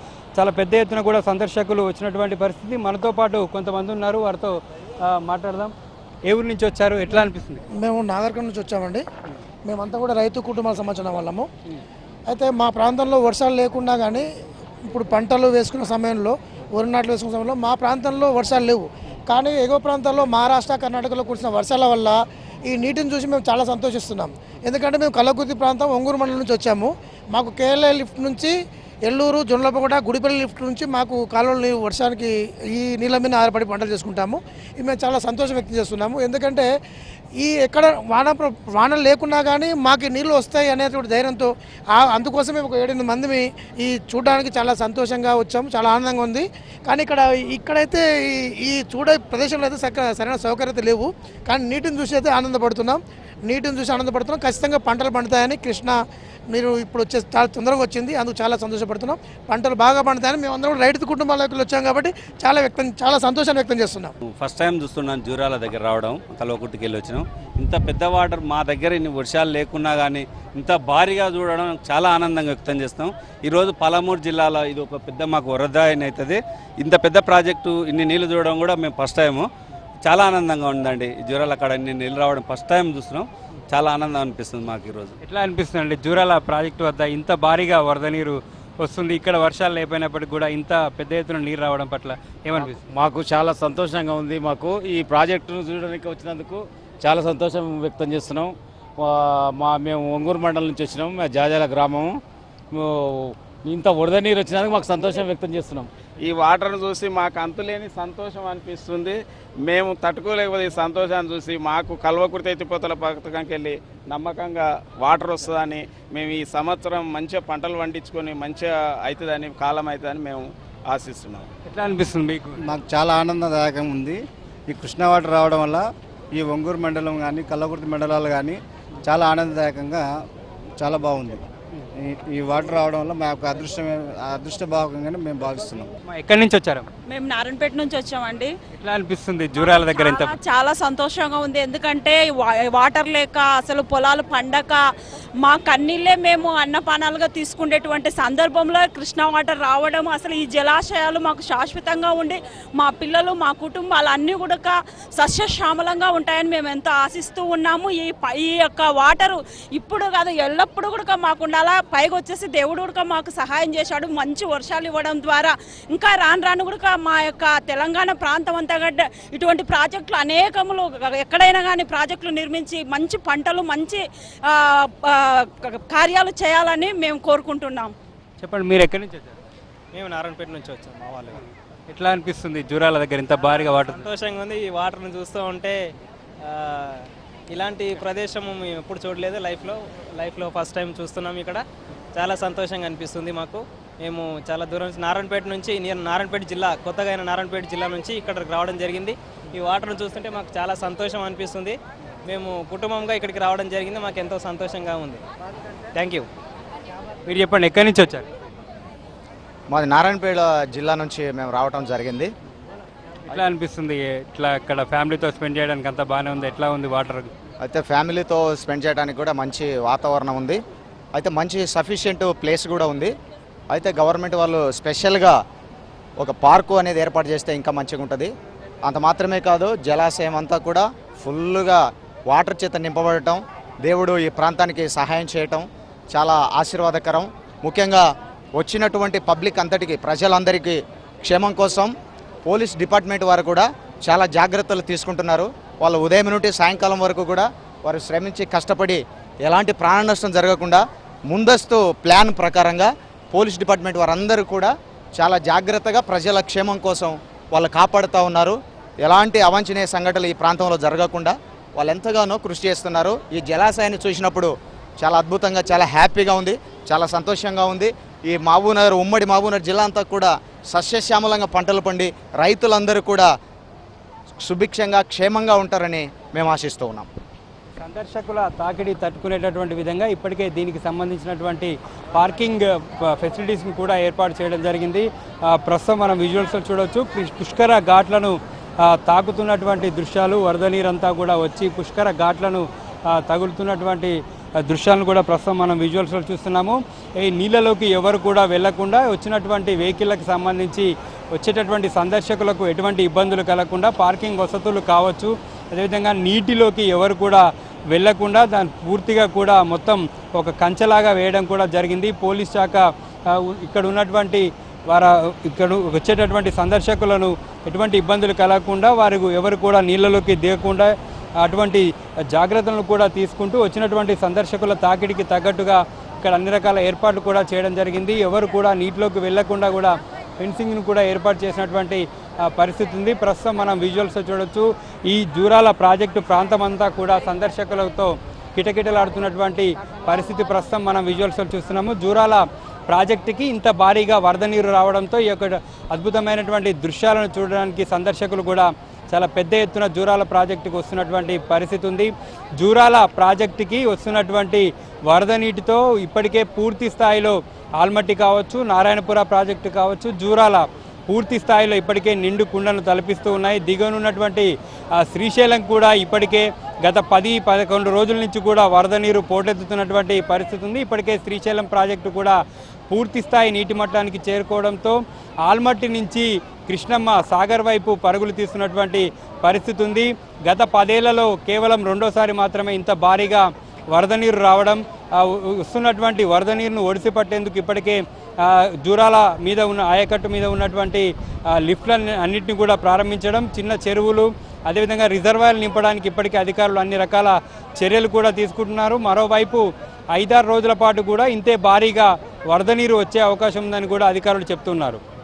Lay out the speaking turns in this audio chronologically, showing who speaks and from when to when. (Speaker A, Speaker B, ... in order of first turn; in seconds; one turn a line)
Speaker A: 0.3-5.7
Speaker A: 6.3-7.6
Speaker B: 7.8-9.0
Speaker B: 9.7-11.5
Speaker B: 12.3-14.2
Speaker B: 14.8-28.5
Speaker B: 29.1-36.6
Speaker B: 37.4-56.0
Speaker B: 56.5-64.1
Speaker C: 64.3-79.5
Speaker C: 80.0-85.1
Speaker A: 85.2-92.8
Speaker D: 94.8-97.2
Speaker D: 97.8-102.1
Speaker D: 102.7-105.9
Speaker E: 106.2-121.5
Speaker A: 121.7-122.6
Speaker F: 122.6-130.1
Speaker F: 130.8-131.4
Speaker F: 132.0-135.9
Speaker A: 136.0-136.9
Speaker G: 137.1-138.5
Speaker A: 138.7-140.3
Speaker G: 139.6-144.8
Speaker G: 145.4-177.9
Speaker A: 178.4-179.4
Speaker H: 179.9-181.4
Speaker A: 181.9-184.1
Speaker H: 183.4-185.8
Speaker H: 186.4-191.6
Speaker H: 192.1-205.2
Speaker H: 205.9-206.3
Speaker A: 207.2-208.3
Speaker I: 209.7-212.3
Speaker A: 213.3-217.3
Speaker I: 217.6-220.6
Speaker I: 221.2-223.1
Speaker I: 223.7-225.3
Speaker I: 226.2-228.3
Speaker I: 228.8-238.0
Speaker I: 238.6-241.9
Speaker I: 242.4-273.3
Speaker I: 274.3-277.1
Speaker A: 277.8-372.4
Speaker A: 372.9-405.0